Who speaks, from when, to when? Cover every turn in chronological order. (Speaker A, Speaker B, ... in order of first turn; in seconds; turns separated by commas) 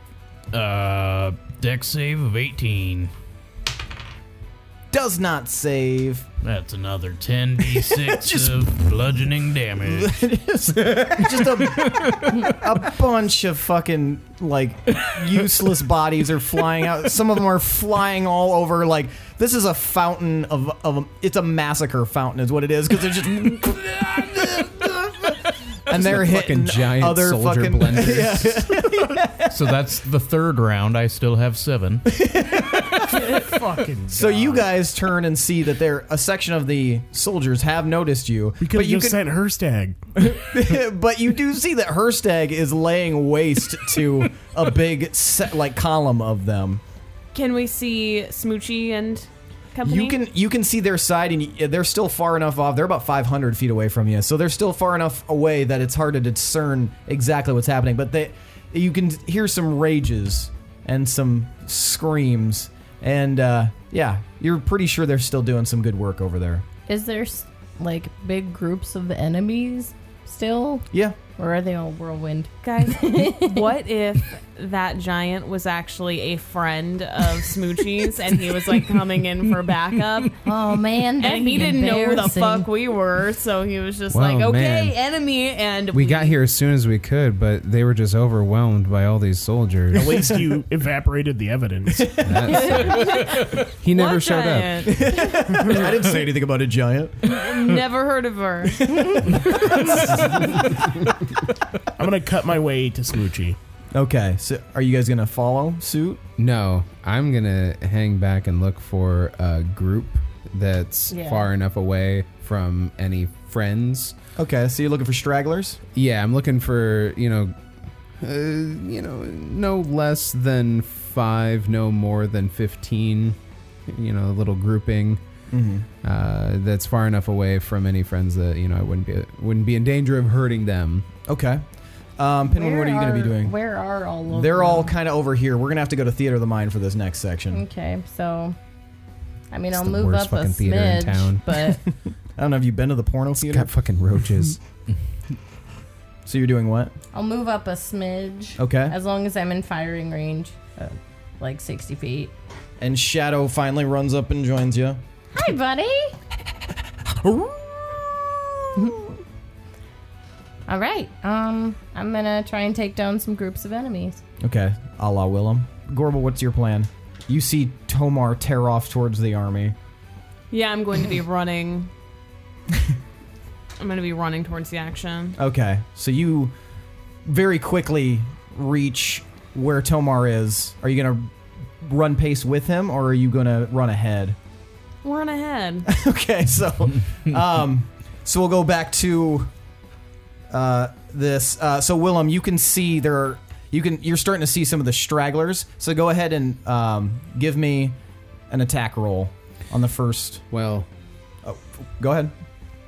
Speaker A: 0.5-3.1, Speaker B: 4.9-6.3, Speaker A: 6.4-10.2, Speaker B: 7.7-8.8, Speaker B: 9.8-29.5, Speaker C: 10.8-11.4, Speaker A: 11.7-12.5, Speaker C: 25.9-28.7, Speaker A: 29.5-32.1, Speaker B: 32.1-33.4, Speaker D: 33.0-34.7, Speaker B: 34.1-39.2, Speaker D: 38.6-40.0, Speaker B: 40.2-46.8, Speaker E: 47.3-50.2, Speaker B: 49.8-66.6, Speaker F: 66.9-73.7, Speaker E: 72.6-80.4, Speaker F: 80.4-82.7, Speaker E: 81.2-86.3, Speaker C: 84.1-85.0, Speaker C: 85.9-90.3, Speaker D: 89.9-92.3, Speaker B: 92.0-92.5, Speaker C: 92.2-95.0, Speaker E: 92.4-95.3, Speaker B: 94.9-97.4, Speaker E: 97.3-98.8, Speaker B: 98.8-100.5, Speaker D: 102.0-103.6, Speaker B: 103.9-106.2, Speaker C: 106.4-114.1, Speaker F: 111.1-111.5, Speaker B: 114.3-115.8, Speaker C: 115.9-117.5, Speaker C: 118.2-123.4, Speaker C: 123.9-125.2, Speaker B: 125.5-125.9, Speaker C: 126.0-131.1, Speaker B: 131.3-131.6, Speaker B: 132.2-133.5, Speaker F: 132.5-134.9, Speaker B: 134.3-137.6, Speaker F: 137.5-138.6, Speaker F: 139.5-141.8, Speaker C: 139.7-141.4, Speaker B: 141.7-143.7, Speaker C: 143.5-144.6, Speaker B: 146.2-146.9, Speaker F: 147.1-152.3, Speaker B: 148.6-148.9, Speaker B: 152.8-155.0, Speaker F: 155.3-156.1, Speaker B: 157.0-159.1, Speaker F: 160.7-164.2, Speaker B: 164.4-169.7, Speaker E: 170.5-171.9, Speaker E: 173.8-175.3, Speaker B: 175.4-176.5, Speaker B: 177.2-184.3, Speaker E: 185.0-185.8, Speaker B: 185.8-189.5, Speaker B: 190.5-197.9, Speaker B: 198.5-200.4, Speaker C: 200.5-200.9, Speaker B: 201.4-202.3